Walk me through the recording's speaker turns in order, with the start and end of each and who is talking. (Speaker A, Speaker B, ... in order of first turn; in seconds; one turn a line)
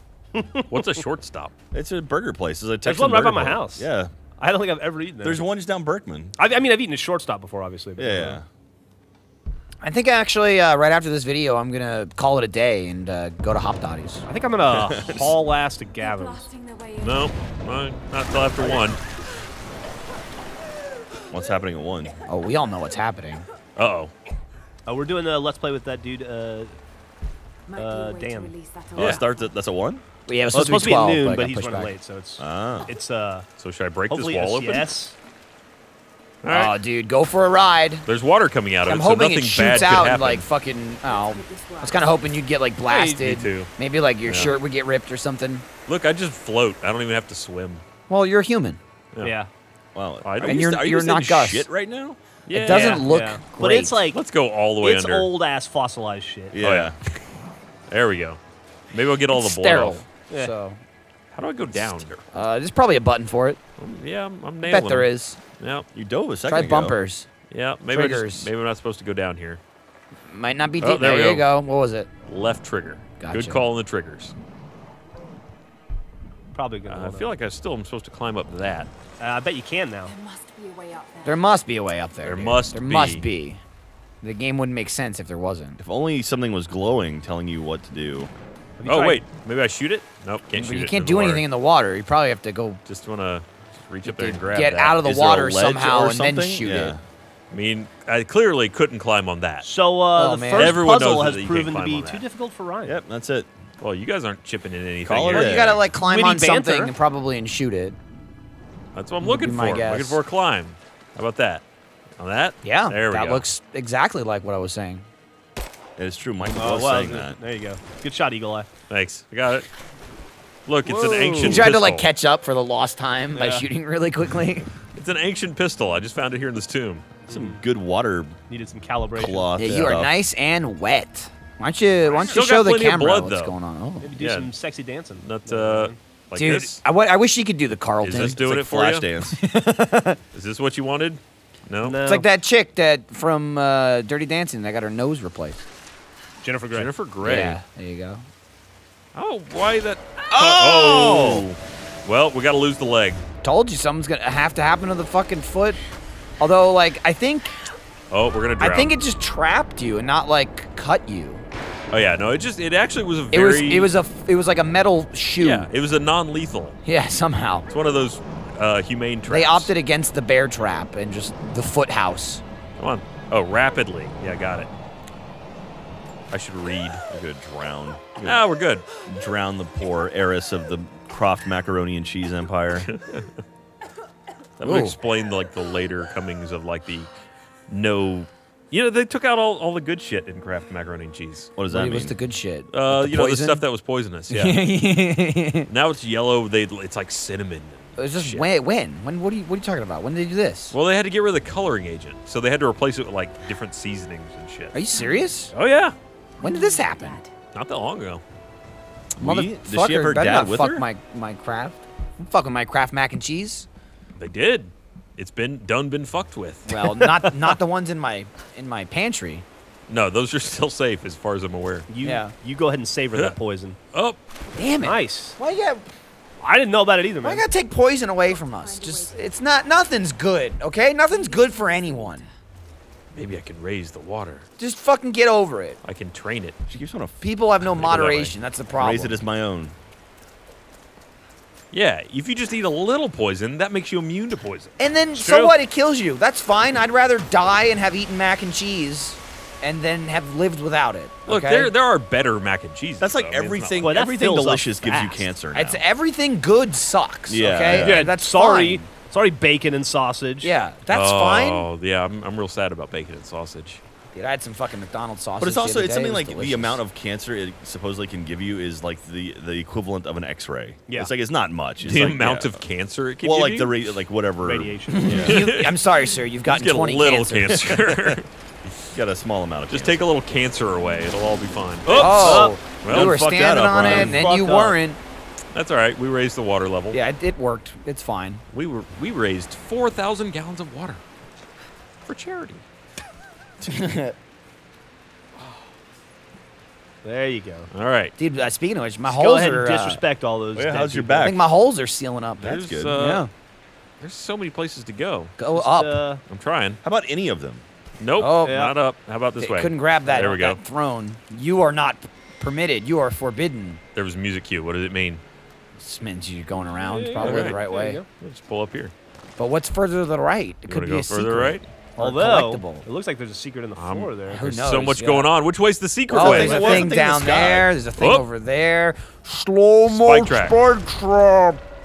Speaker A: 0.3-0.7
Speaker B: 0.7-1.5
Speaker C: 1.7-4.1
Speaker A: 2.8-3.9
Speaker A: 4.4-5.5
Speaker C: 5.2-6.3
Speaker A: 6.4-8.4
Speaker C: 8.0-8.4
Speaker D: 9.8-14.2
Speaker A: 14.3-16.5
Speaker C: 14.7-15.3
Speaker E: 15.9-17.4
Speaker B: 17.0-19.0
Speaker E: 18.5-18.9
Speaker C: 21.3-22.1
Speaker D: 22.3-23.4
Speaker B: 23.8-24.1
Speaker A: 24.9-26.7
Speaker E: 27.7-29.5
Speaker A: 27.7-28.5
Speaker C: 28.9-30.0
Speaker B: 28.9-29.2
Speaker D: 30.2-31.9
Speaker A: 30.5-33.5
Speaker C: 32.4-32.9
Speaker B: 33.6-34.9
Speaker A: 34.1-35.1
Speaker B: 36.4-36.8
Speaker D: 36.5-38.1
Speaker B: 38.0-40.4
Speaker D: 38.9-45.6
Speaker E: 41.0-42.3
Speaker A: 42.9-43.2
Speaker B: 43.0-43.7
Speaker B: 44.2-44.6
Speaker B: 45.9-47.8
Speaker D: 48.1-48.8
Speaker A: 49.2-49.5
Speaker C: 49.9-52.2
Speaker B: 50.2-50.6
Speaker D: 50.4-51.7
Speaker B: 52.5-53.1
Speaker D: 52.5-54.0
Speaker A: 52.6-54.2
Speaker B: 54.1-55.3
Speaker A: 54.8-56.6
Speaker C: 56.5-57.0
Speaker B: 56.6-56.9
Speaker B: 57.9-58.4
Speaker B: 58.9-60.0
Speaker D: 59.3-60.8
Speaker B: 61.3-62.3
Speaker D: 61.9-63.6
Speaker B: 63.8-65.9
Speaker D: 64.7-65.4
Speaker C: 65.9-67.0
Speaker D: 66.5-67.3
Speaker B: 67.5-69.6
Speaker D: 67.9-68.5
Speaker D: 70.3-72.1
Speaker B: 70.8-71.5
Speaker B: 72.3-74.3
Speaker D: 73.2-73.6
Speaker A: 76.5-77.3
Speaker B: 76.9-78.9
Speaker A: 79.2-80.1
Speaker E: 80.0-81.5
Speaker D: 81.2-83.6
Speaker B: 82.2-83.2
Speaker D: 84.2-85.8
Speaker C: 85.8-88.3
Speaker A: 88.8-89.2
Speaker B: 88.8-91.5
Speaker D: 90.5-92.8
Speaker B: 92.8-95.0
Speaker D: 94.0-96.9
Speaker C: 95.0-97.0
Speaker B: 97.5-99.7
Speaker A: 99.6-103.0
Speaker D: 100.2-100.8
Speaker B: 100.5-102.2
Speaker C: 102.8-103.5
Speaker B: 103.8-105.6
Speaker C: 105.0-105.8
Speaker D: 105.3-108.0
Speaker A: 106.0-106.9
Speaker B: 108.9-111.6
Speaker D: 109.2-110.2
Speaker B: 112.2-113.5
Speaker D: 112.6-115.0
Speaker C: 116.0-117.4
Speaker A: 116.5-118.7
Speaker B: 118.9-119.7
Speaker B: 120.7-122.1
Speaker A: 120.9-121.6
Speaker D: 121.4-124.7
Speaker A: 123.3-123.7
Speaker B: 124.9-127.1
Speaker A: 127.3-127.6
Speaker C: 127.3-128.4
Speaker A: 128.5-129.5
Speaker C: 129.1-130.2
Speaker D: 129.6-134.1
Speaker B: 132.1-133.6
Speaker A: 134.0-136.0
Speaker B: 134.1-134.5
Speaker B: 135.2-136.8
Speaker D: 136.3-138.4
Speaker B: 138.0-139.1
Speaker C: 138.0-139.4
Speaker D: 139.2-140.2
Speaker B: 140.3-142.0
Speaker A: 141.8-142.3
Speaker D: 142.0-145.6
Speaker A: 146.4-146.9
Speaker B: 146.7-147.6
Speaker D: 147.2-148.2
Speaker B: 149.1-153.2
Speaker C: 150.3-151.4
Speaker D: 153.4-155.8
Speaker D: 156.4-157.6
Speaker B: 158.1-158.9
Speaker D: 158.6-161.4
Speaker B: 161.9-163.9
Speaker D: 163.3-165.7
Speaker B: 165.4-166.8
Speaker D: 166.8-167.7
Speaker B: 167.7-169.7
Speaker D: 169.3-172.4
Speaker B: 172.8-174.7
Speaker B: 176.3-177.1
Speaker C: 177.1-178.4
Speaker B: 178.2-178.8
Speaker C: 179.1-182.9
Speaker B: 182.9-183.3
Speaker B: 184.6-187.1
Speaker D: 184.6-184.9
Speaker B: 187.7-191.5
Speaker C: 191.6-192.2
Speaker D: 191.7-193.6
Speaker B: 192.7-194.7
Speaker D: 194.3-195.7
Speaker B: 195.7-198.5
Speaker D: 198.0-200.8
Speaker B: 200.7-204.8
Speaker D: 204.7-205.5
Speaker B: 205.5-205.9
Speaker E: 206.4-207.3
Speaker D: 206.4-207.2
Speaker B: 207.5-208.2
Speaker C: 209.2-210.9
Speaker D: 209.2-213.7
Speaker B: 214.2-216.7
Speaker D: 216.7-219.4
Speaker A: 216.7-217.6
Speaker B: 219.9-221.9
Speaker A: 221.9-223.8
Speaker D: 222.0-222.3
Speaker B: 223.9-224.2
Speaker D: 224.5-225.8
Speaker A: 224.8-225.4
Speaker A: 226.4-227.5
Speaker D: 227.2-232.2
Speaker E: 228.3-229.9
Speaker E: 231.0-232.3
Speaker B: 233.1-234.4
Speaker D: 234.6-235.8
Speaker B: 235.8-236.6
Speaker C: 236.7-237.2
Speaker D: 237.2-239.2
Speaker B: 237.6-238.3
Speaker C: 238.7-239.7
Speaker B: 241.7-244.7
Speaker D: 244.8-251.7
Speaker A: 245.2-245.6
Speaker B: 251.3-253.9
Speaker C: 253.0-255.8
Speaker A: 253.8-255.3
Speaker D: 255.5-258.8
Speaker C: 257.3-258.1
Speaker A: 257.7-260.6
Speaker D: 260.4-261.7
Speaker B: 260.9-263.8
Speaker D: 264.1-266.8
Speaker C: 265.4-272.6
Speaker B: 271.8-273.9
Speaker C: 273.2-275.4
Speaker A: 274.4-275.3
Speaker D: 274.9-277.7
Speaker B: 275.2-275.8
Speaker B: 276.5-278.9
Speaker C: 277.4-278.2
Speaker C: 278.9-280.0
Speaker B: 279.7-283.2
Speaker D: 281.9-285.0
Speaker A: 282.0-282.6
Speaker C: 282.9-284.2
Speaker A: 283.7-284.8
Speaker B: 285.5-287.0
Speaker D: 286.9-288.4
Speaker B: 288.5-291.0
Speaker B: 292.0-292.6
Speaker D: 293.6-294.1
Speaker B: 295.4-295.7
Speaker A: 297.0-297.7
Speaker B: 297.7-298.1
Speaker D: 298.2-300.0
Speaker A: 299.0-301.3
Speaker C: 300.5-301.4
Speaker D: 301.2-303.3
Speaker C: 302.4-303.0
Speaker B: 302.4-303.3
Speaker B: 304.0-305.3
Speaker D: 305.4-306.0
Speaker A: 305.5-306.2
Speaker B: 306.3-306.8
Speaker C: 306.8-307.6
Speaker B: 308.0-310.6
Speaker D: 308.2-308.7
Speaker A: 308.4-308.7
Speaker D: 309.4-313.8
Speaker B: 313.9-315.2
Speaker D: 315.8-318.0
Speaker A: 316.7-318.1
Speaker B: 317.2-317.6
Speaker B: 318.2-318.9
Speaker D: 319.4-322.9
Speaker B: 320.7-321.6
Speaker A: 322.0-324.4
Speaker B: 323.8-326.9
Speaker D: 324.3-325.3
Speaker C: 326.1-327.7
Speaker D: 326.1-331.6
Speaker B: 328.0-328.3
Speaker B: 329.9-330.6